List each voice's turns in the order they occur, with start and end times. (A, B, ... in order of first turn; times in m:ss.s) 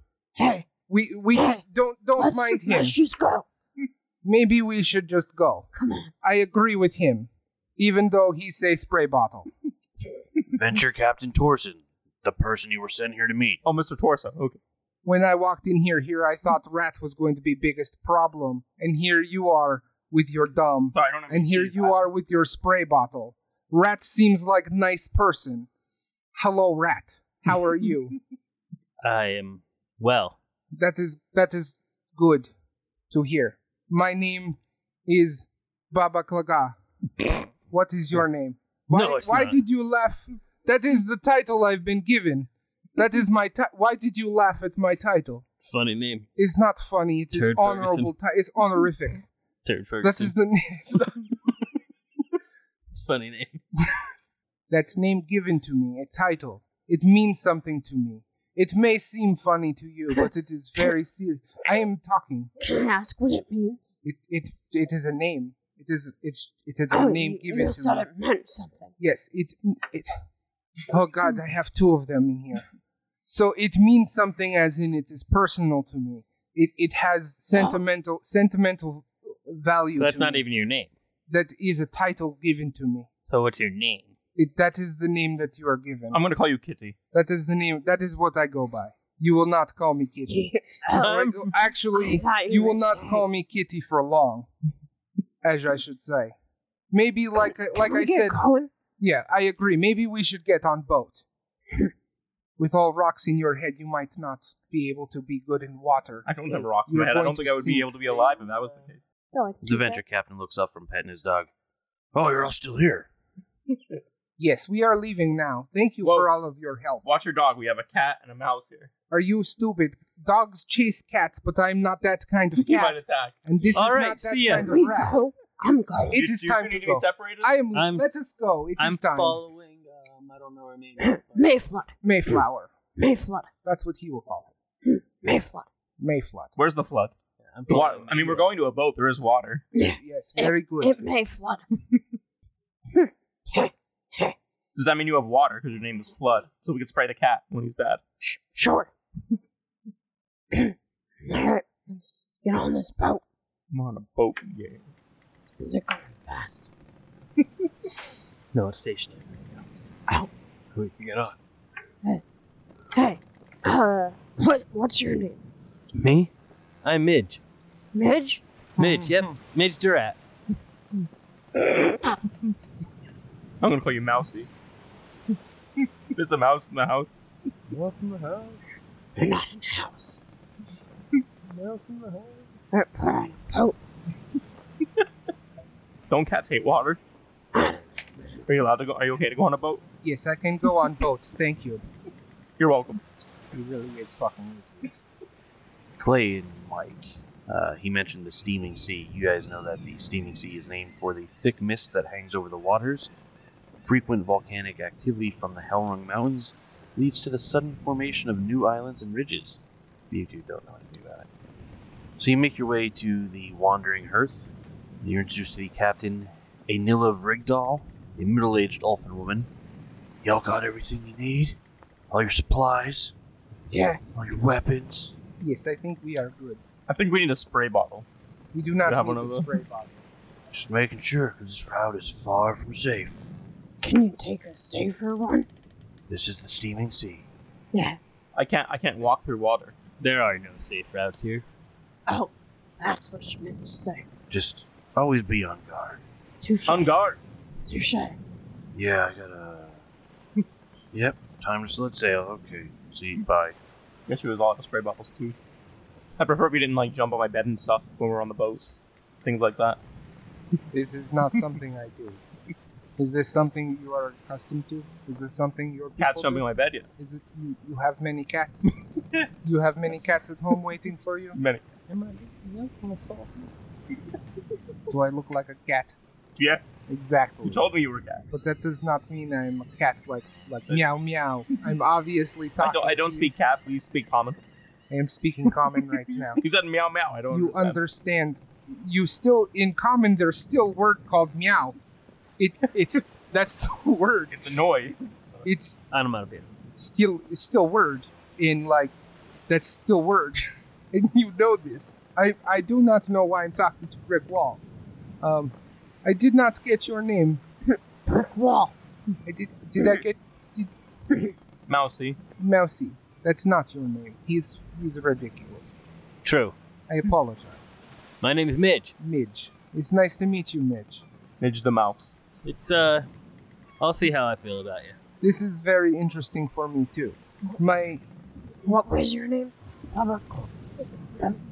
0:00.4-0:00.7 A
0:00.9-0:03.0 B
0:01.3-0:01.6 A
0:02.2-0:03.4 A
0:04.2-0:05.7 B
0:05.8-0:06.1 A
0:06.2-0:09.5 B
0:10.5-0:13.6 C
0:13.6-0:14.6 D
0:15.0-0:25.7 B
0:20.9-0:22.1 D
0:26.4-0:28.2 B
0:29.0-0:30.4 E
0:30.7-0:32.5 B
0:33.1-0:45.5 B
0:38.9-0:39.6 E
0:45.6-0:46.3 E
0:46.4-0:49.3 B
0:47.3-0:48.1 E
0:49.6-0:50.4 E
0:50.0-0:51.3 B
0:52.9-0:53.6 E
0:54.7-1:02.5 B
1:02.6-1:04.0 A
1:04.0-1:08.1 B
1:06.9-1:08.9 A
1:09.0-1:10.1 B
1:10.9-1:12.6 B
1:13.3-1:20.4 B
1:17.5-1:17.8 A
1:20.0-1:20.9 E
1:21.3-1:23.1 B
1:23.3-1:24.1 E
1:24.4-1:26.2 B
1:26.1-1:27.0 D
1:27.1-1:34.5 B
1:30.3-1:31.3 A
1:31.0-1:31.3 E
1:31.9-1:33.2 A
1:35.4-1:36.4 B
1:36.9-1:38.4 B
1:37.7-1:38.7 A
1:39.0-1:41.2 B
1:42.6-1:46.3 B
1:46.3-1:49.0 D
1:46.9-1:47.9 B
1:49.3-1:50.0 A
1:49.6-1:51.5 C
1:52.1-1:53.1 C
1:54.4-1:57.0 B
1:56.0-1:56.3 D
1:57.0-1:58.9 D
1:59.1-2:05.2 B
2:02.6-2:03.4 D
2:03.7-2:04.7 E
2:04.5-2:06.2 A
2:06.1-2:09.4 B
2:06.1-2:07.5 D
2:07.7-2:08.1 E
2:08.8-2:11.6 E
2:11.0-2:12.0 A
2:12.0-2:12.7 B
2:13.0-2:13.5 A
2:13.6-2:14.5 B
2:14.8-2:15.7 A
2:16.0-2:16.5 B
2:16.6-2:17.1 D
2:17.4-2:18.5 E
2:17.7-2:19.6 D
2:19.7-2:21.6 A
2:19.9-2:21.0 B
2:22.9-2:24.4 A
2:24.8-2:28.0 D
2:28.2-2:28.9 A
2:30.5-2:33.2 A
2:33.7-2:34.8 D
2:35.6-2:36.7 A
2:38.5-2:39.6 E
2:40.7-2:41.4 E
2:42.9-2:45.4 A
2:46.0-2:46.3 E
2:46.8-2:47.4 E
2:47.9-2:48.4 A
2:48.8-2:49.4 B
2:48.8-2:50.2 E
2:53.6-2:54.5 D
2:56.1-2:57.2 D
2:57.7-2:58.6 E
2:59.2-3:00.2 A
3:01.5-3:02.5 E
3:02.7-3:03.8 A
3:06.1-3:07.0 D
3:07.5-3:07.8 A
3:08.5-3:09.8 D
3:10.0-3:11.8 B
3:12.6-3:13.0 D
3:13.5-3:14.9 B
3:16.0-3:23.1 C
3:23.8-3:31.3 C
3:32.2-3:34.5 C
3:35.0-3:39.5 C
3:40.2-3:41.6 C
3:42.1-3:43.1 C
3:43.7-3:44.0 A
3:44.1-3:45.1 C
3:45.4-3:46.6 B
3:46.9-3:48.1 D
3:48.5-3:50.0 B
3:48.8-3:49.6 D
3:50.5-3:53.2 C
3:53.8-3:55.5 A
3:56.1-3:57.3 C
3:57.7-3:58.0 A
3:58.4-3:59.8 D
4:00.0-4:01.4 E
4:02.1-4:04.1 A
4:04.3-4:06.0 C
4:06.4-4:06.9 A
4:06.7-4:07.2 D
4:07.7-4:08.2 A
4:08.7-4:09.8 C
4:10.9-4:13.6 C
4:14.1-4:15.4 D
4:16.2-4:18.7 D
4:19.2-4:19.8 D
4:20.7-4:22.2 B
4:23.0-4:26.4 B
4:26.0-4:26.9 D
4:27.0-4:28.7 B
4:29.4-4:31.4 B
4:31.4-4:31.8 D
4:31.9-4:33.5 E
4:34.9-4:35.9 B
4:36.4-4:36.8 D
4:36.9-4:37.6 B
4:37.4-4:38.2 D
4:38.3-4:43.3 B
4:42.6-4:44.4 D
4:44.9-4:46.4 B
4:46.4-4:47.8 D
4:47.3-4:51.8 B
4:52.4-4:54.3 B
4:54.3-4:55.5 D
4:55.4-4:55.8 B
4:55.9-4:56.5 E
4:56.8-4:58.9 B
4:59.5-5:04.6 B
5:05.2-5:07.4 B
5:08.1-5:08.8 A
5:09.3-5:10.7 B
5:11.7-5:12.2 D
5:12.4-5:15.9 B
5:16.2-5:16.6 E
5:16.9-5:17.8 B
5:18.2-5:19.0 E
5:19.0-5:21.0 B
5:21.4-5:22.2 D
5:22.4-5:23.1 E
5:23.8-5:25.0 E
5:25.2-5:28.0 B
5:28.6-5:30.5 A